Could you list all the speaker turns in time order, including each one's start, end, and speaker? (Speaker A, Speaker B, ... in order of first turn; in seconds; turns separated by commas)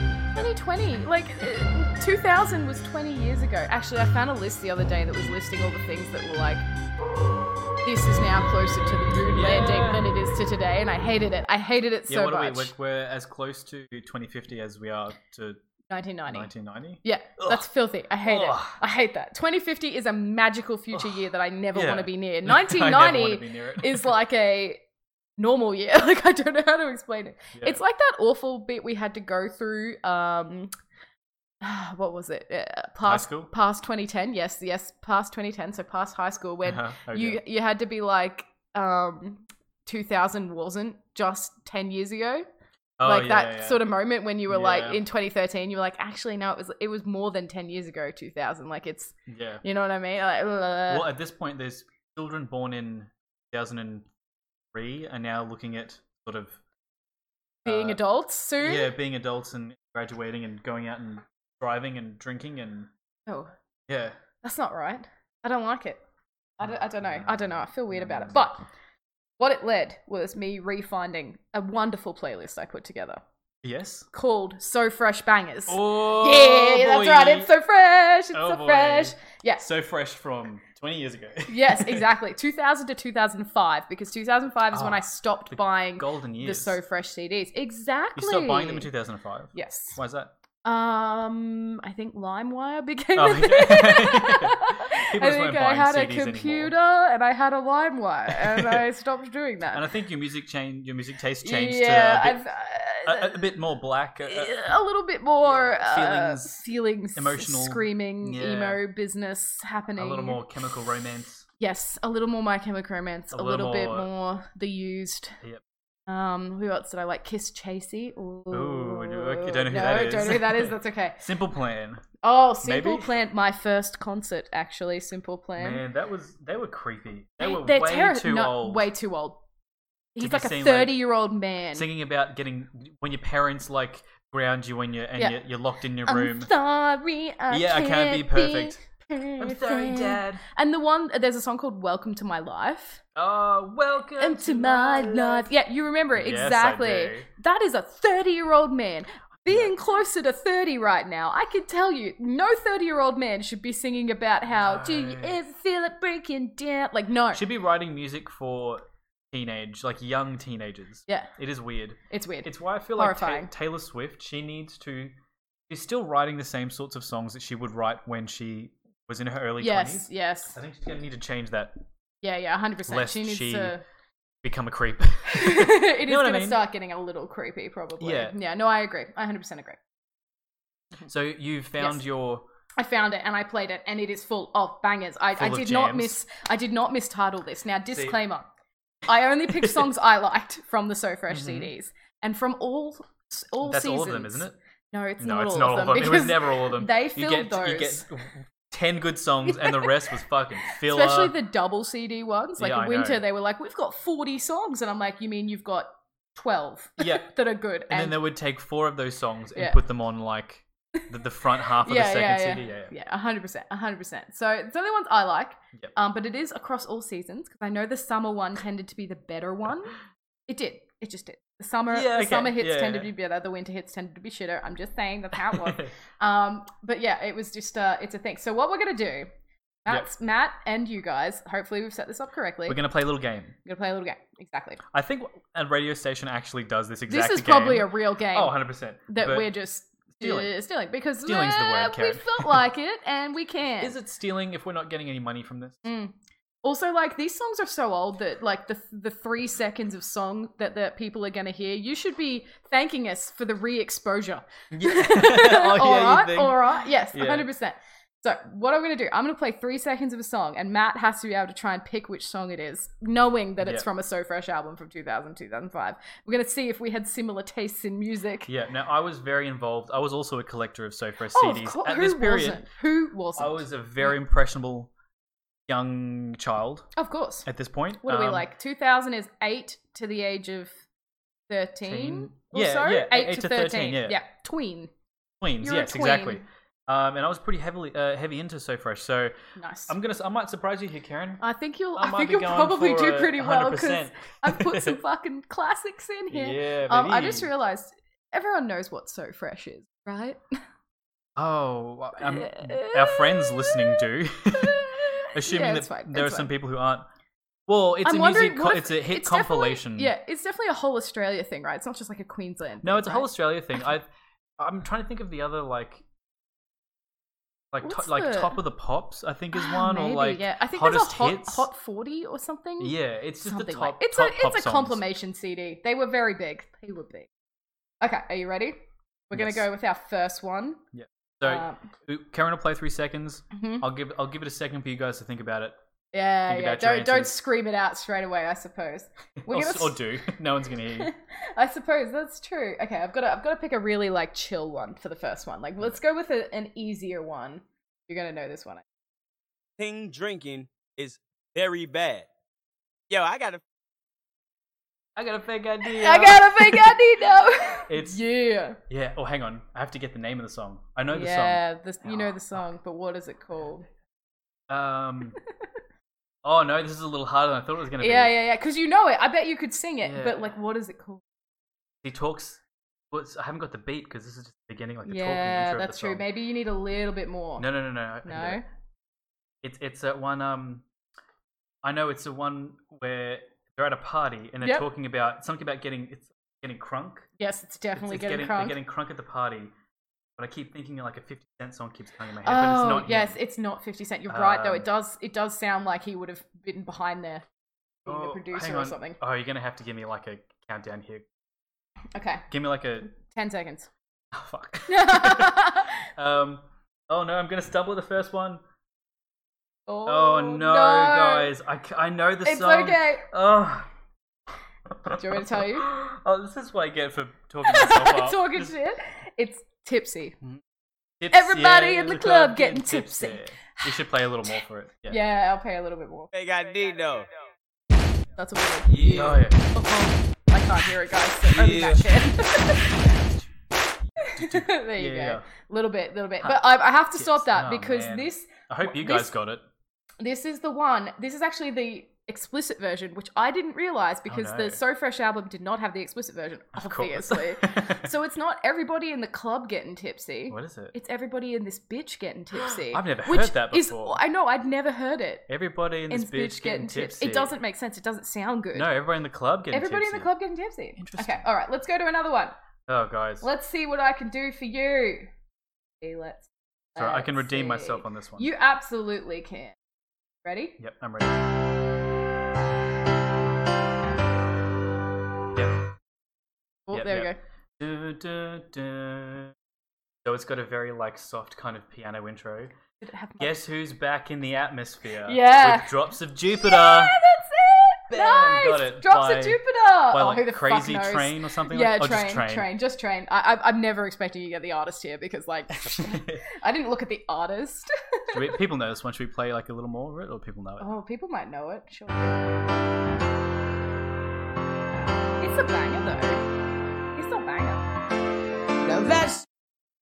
Speaker A: 0.3-6.6, Speaker A: 7.8-12.7, Speaker B: 9.3-10.1, Speaker B: 12.1-15.6, Speaker A: 15.9-16.5, Speaker B: 16.3-17.6, Speaker A: 17.0-24.8, Speaker B: 18.2-18.8, Speaker B: 20.9-21.2, Speaker B: 21.7-24.1, Speaker A: 25.4-30.7, Speaker A: 31.6-42.5, Speaker B: 33.0-33.5, Speaker B: 36.6-37.4, Speaker B: 43.0-43.8, Speaker A: 43.0-51.1, Speaker B: 44.5-45.0, Speaker B: 49.3-49.6, Speaker B: 50.9-54.1, Speaker B: 54.7-56.6, Speaker B: 57.6-58.0, Speaker A: 57.6-58.9, Speaker B: 58.6-62.9, Speaker B: 63.9-64.2, Speaker A: 64.4-66.0, Speaker A: 66.6-68.7, Speaker B: 67.2-68.4, Speaker A: 69.4-73.2, Speaker B: 73.6-74.1, Speaker A: 74.1-79.6, Speaker B: 75.7-77.5, Speaker B: 78.3-82.0, Speaker A: 81.5-88.9, Speaker B: 84.7-86.8, Speaker B: 88.2-90.3, Speaker A: 89.5-90.0, Speaker A: 90.6-99.8, Speaker B: 93.2-96.7, Speaker B: 98.3-98.8, Speaker B: 99.7-102.4, Speaker A: 101.4-103.5, Speaker B: 103.0-104.6, Speaker A: 104.3-110.4, Speaker B: 105.4-106.6, Speaker B: 107.1-108.8, Speaker B: 110.0-111.5, Speaker A: 111.6-115.4, Speaker B: 113.3-114.1, Speaker A: 116.1-121.2, Speaker B: 118.5-123.1, Speaker A: 122.2-125.8, Speaker B: 125.6-128.9, Speaker A: 127.4-129.4, Speaker A: 130.1-131.9, Speaker B: 130.2-131.0, Speaker B: 131.7-136.5, Speaker A: 136.0-143.0, Speaker B: 137.5-138.8, Speaker B: 139.4-140.4, Speaker B: 143.2-145.5, Speaker A: 144.2-157.4, Speaker B: 146.2-147.3, Speaker B: 149.4-149.7, Speaker B: 154.6-155.4, Speaker B: 157.3-165.1, Speaker A: 162.1-163.5, Speaker B: 165.7-171.8, Speaker A: 169.6-170.6, Speaker A: 172.2-173.8, Speaker B: 172.9-173.7, Speaker B: 174.4-176.6, Speaker A: 175.3-179.8, Speaker B: 178.0-178.3, Speaker B: 181.1-182.4, Speaker A: 182.8-188.5, Speaker B: 185.3-186.2, Speaker A: 189.1-198.0, Speaker B: 191.3-191.7, Speaker B: 193.6-194.6, Speaker B: 195.2-201.3, Speaker A: 199.5-199.9, Speaker A: 200.7-208.2, Speaker B: 202.6-203.2, Speaker B: 207.0-207.3, Speaker B: 207.9-212.9, Speaker A: 211.7-219.9, Speaker A: 220.5-229.3, Speaker B: 221.9-223.1, Speaker B: 225.5-225.9, Speaker A: 229.8-232.8, Speaker B: 232.7-233.5, Speaker A: 233.6-234.8, Speaker B: 234.9-239.5, Speaker A: 237.1-243.9, Speaker B: 240.2-240.5, Speaker B: 241.2-242.6, Speaker B: 243.8-245.8, Speaker A: 245.8-268.5, Speaker B: 254.7-257.5, Speaker B: 263.6-263.9, Speaker B: 268.5-272.6, Speaker A: 271.3-274.1, Speaker B: 273.4-274.9, Speaker B: 275.7-276.9, Speaker A: 276.9-277.5, Speaker B: 277.4-278.5, Speaker A: 278.0-280.7, Speaker A: 281.5-284.9, Speaker B: 281.8-284.2, Speaker B: 285.4-289.3, Speaker A: 285.6-286.4, Speaker A: 289.6-289.9, Speaker B: 289.9-291.4, Speaker A: 291.4-300.5, Speaker B: 291.9-295.0, Speaker B: 296.3-297.5, Speaker B: 301.4-307.1, Speaker A: 302.2-306.5, Speaker B: 307.7-310.1, Speaker A: 308.0-313.3, Speaker B: 312.8-314.1, Speaker B: 314.6-316.0, Speaker B: 317.7-321.7, Speaker A: 317.8-318.6, Speaker A: 319.5-327.3, Speaker B: 322.8-325.0, Speaker A: 328.0-328.8, Speaker A: 329.3-330.8, Speaker B: 329.3-329.6, Speaker B: 330.9-335.8, Speaker A: 331.4-331.8, Speaker A: 333.5-333.8, Speaker A: 336.1-340.3, Speaker B: 336.4-337.4, Speaker B: 339.4-341.1, Speaker A: 340.8-348.8, Speaker C: 349.8-352.3, Speaker C: 353.1-353.6, Speaker B: 355.1-357.0, Speaker A: 355.8-358.8, Speaker B: 357.9-358.2, Speaker B: 358.9-362.4, Speaker A: 361.1-363.9, Speaker B: 364.7-365.4, Speaker B: 366.4-368.3, Speaker A: 368.0-371.2, Speaker B: 370.0-370.5, Speaker B: 372.0-372.6, Speaker B: 373.1-376.2, Speaker A: 375.1-377.7, Speaker B: 377.6-378.6, Speaker A: 378.2-378.6, Speaker B: 379.6-380.8, Speaker B: 381.8-387.3, Speaker A: 387.4-388.8, Speaker B: 387.9-389.7, Speaker B: 390.4-393.4, Speaker A: 392.4-397.4, Speaker B: 394.3-394.9, Speaker A: 398.0-399.2, Speaker B: 398.1-401.2, Speaker A: 402.1-402.5, Speaker B: 402.5-403.1, Speaker A: 403.1-403.9, Speaker B: 404.3-408.6, Speaker A: 404.9-406.1, Speaker A: 409.9-411.5, Speaker B: 410.0-413.9, Speaker A: 412.4-413.3, Speaker B: 414.9-418.7, Speaker A: 415.1-415.9, Speaker A: 417.6-420.4, Speaker B: 421.2-425.2, Speaker A: 421.3-423.4, Speaker A: 425.1-426.3, Speaker C: 426.3-427.3, Speaker A: 428.3-433.0, Speaker B: 428.9-429.7, Speaker B: 431.4-432.2, Speaker B: 433.1-433.4, Speaker B: 434.1-435.4, Speaker A: 434.2-439.3, Speaker B: 436.4-439.6, Speaker A: 440.2-455.4, Speaker B: 444.3-444.8, Speaker B: 446.8-448.1, Speaker B: 450.5-450.9, Speaker B: 452.6-454.2, Speaker B: 455.5-457.6, Speaker A: 456.1-458.9, Speaker B: 458.7-460.3, Speaker A: 459.7-462.6, Speaker B: 461.0-461.4, Speaker B: 462.9-463.4, Speaker A: 463.4-465.3, Speaker A: 466.0-469.8, Speaker B: 467.0-468.5, Speaker A: 470.4-470.8, Speaker B: 470.8-471.5, Speaker B: 475.5-475.8, Speaker A: 476.9-477.4, Speaker B: 476.9-479.5, Speaker B: 480.2-482.7, Speaker A: 483.0-483.6, Speaker B: 483.4-487.1, Speaker A: 485.2-498.6, Speaker B: 488.1-489.6, Speaker B: 490.1-492.7, Speaker B: 495.8-496.4, Speaker B: 498.3-500.9, Speaker A: 500.8-502.5, Speaker A: 505.4-506.4, Speaker A: 507.1-507.9, Speaker C: 508.8-509.4